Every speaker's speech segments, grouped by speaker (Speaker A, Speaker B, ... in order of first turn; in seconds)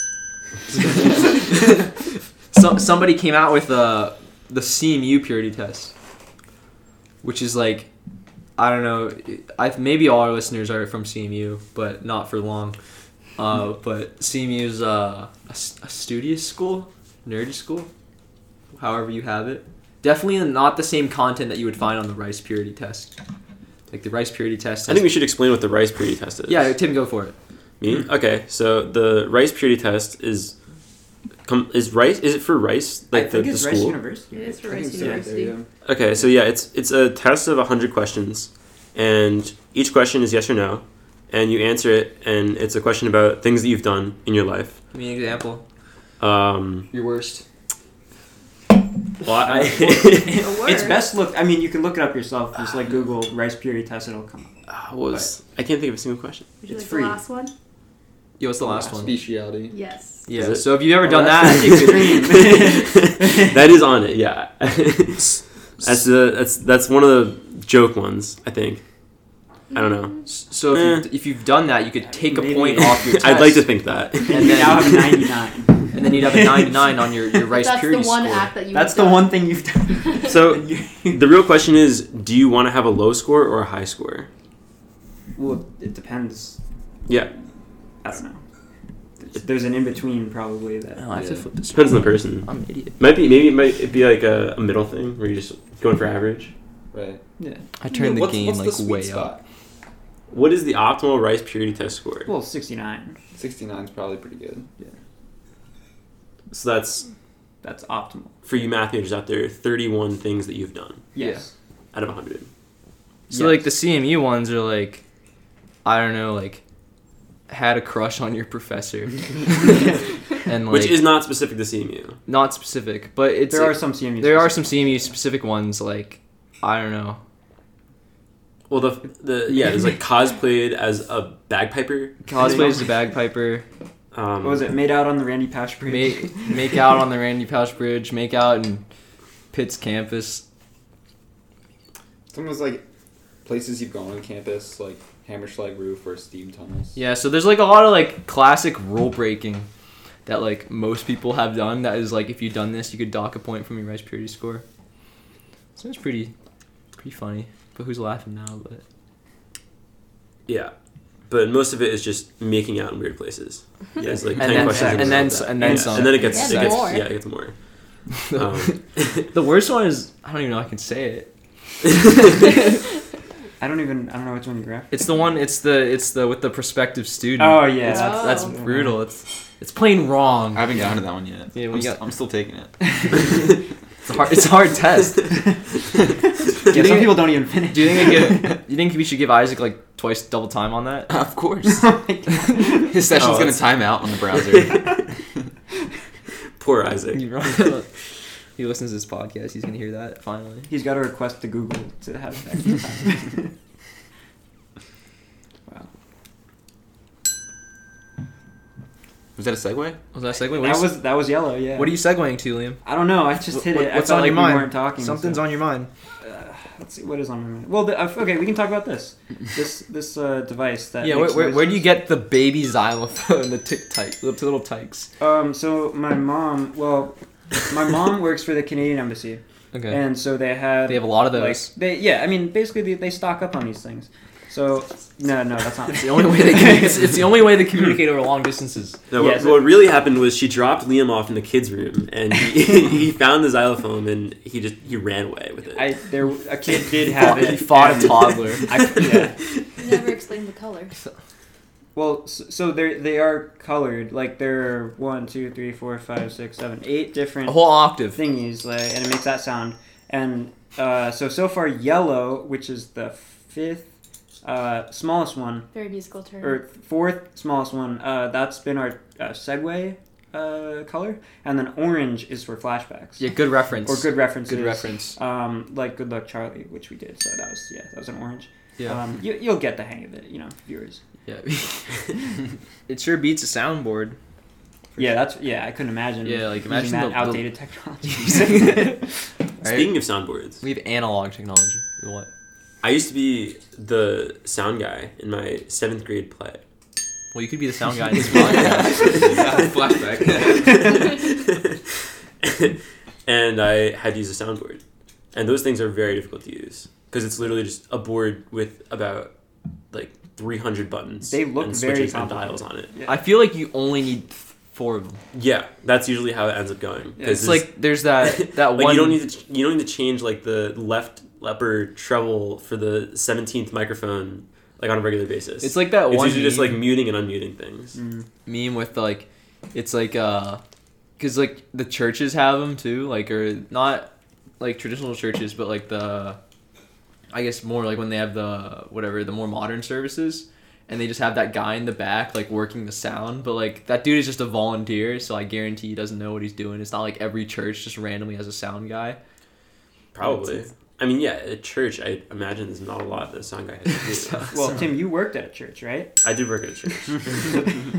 Speaker A: 0.7-5.9, 7.2-7.9, 8.6-12.8, 13.4-17.9, 18.8-23.1, 23.9-25.1, 26.5-27.4, 44.9-45.6, 46.9-47.5, 58.4-59.2, 60.3-62.1, 70.3-73.7, 74.3-75.1, 75.9-78.5, 91.0-93.0, 97.8-99.3, 111.2-111.4, 113.3-115.0, 115.8-116.6, 117.5-121.1, 122.3-127.2, 132.2-133.7, 135.9-138.8, 139.5-140.4, 146.9-149.7, 150.3-154.6, 155.8-156.3, 157.0-158.8, 164.4-166.9, 168.3-171.3, 171.9-172.8, 174.9-180.8, 181.5-182.0, 183.0-183.3, 184.1-185.3, 186.7-191.1, 197.1-197.9, 198.6-200.7, 210.1-211.0, 211.8-212.8, 213.5-215.9, 221.0-225.1, 229.7-230.1, 230.9-231.7, 235.9-239.0, 247.1-248.7, 257.4-258.2, 273.2-275.2, 278.8-279.0, 281.3-284.2, 284.9-285.2, 286.2-287.5, 288.0-290.0, 290.6-292.3, 297.3-299.3, 313.1-315.2, 317.2-319.2, 325.6-326.9, 328.5-330.6, 331.2-336.4, 337.3-349.2, 353.9-354.9
Speaker B: 24.9-26.8, 27.8-30.6, 31.4-34.0, 35.9-44.8, 46.2-46.9, 49.2-50.5, 54.7-56.6, 60.3-60.8, 61.4-68.8, 69.7-71.1, 73.0-75.3, 80.3-80.6, 81.1-84.3, 91.7-96.5, 100.3-102.3, 106.5-107.1, 108.5-111.1, 111.9-112.5, 120.7-122.2, 128.7-132.8, 134.1-134.7, 160.5-160.7, 161.3-169.3, 193.1-193.7, 194.4-195.0, 196.6-197.8, 239.1-245.9, 248.7-249.6, 289.6-290.6, 292.8-296.6, 298.5-299.6, 300.5-301.8, 302.4-304.8, 305.3-309.3, 309.9-312.9, 315.3-328.0, 350.1-354.5, 356.2-357.8
Speaker C: 33.1-35.7, 49.4-54.5, 56.7-57.2, 58.6-59.0, 61.0-63.6, 72.0-73.5, 74.3-77.0, 78.7-81.3, 85.4-86.6, 88.0-88.4, 89.2-91.0, 97.4-97.7, 102.3-103.2, 107.6-108.3, 111.2-111.5, 113.3-113.7, 123.5-125.1, 132.3-132.9, 134.4-136.6, 164.1-166.2, 173.6-174.9, 177.4-179.0, 186.5-188.6, 191.7-193.0, 200.7-203.5, 210.4-212.0, 212.8-215.5, 216.2-221.9, 225.2-237.4, 239.2-239.7, 245.7-249.4, 251.9-263.9, 264.4-265.7, 266.4-273.2, 273.9-281.0, 285.0-289.1, 311.3-313.2, 317.2-317.5, 327.9-328.3, 350.2-350.5, 354.5-356.2
Speaker D: 34.3-35.6, 50.3-51.1, 56.6-57.5, 59.7-60.3, 77.4-79.5, 80.0-80.4, 166.2-167.1, 177.8-178.6, 249.8-250.9, 265.7-266.6
Speaker E: 58.7-59.8, 91.2-91.4, 96.9-97.2, 97.9-99.4, 103.3-104.7, 142.3-142.8, 143.4-147.0, 180.5-182.8, 191.1-191.9, 192.9-195.0, 209.4-210.0, 298.4-301.0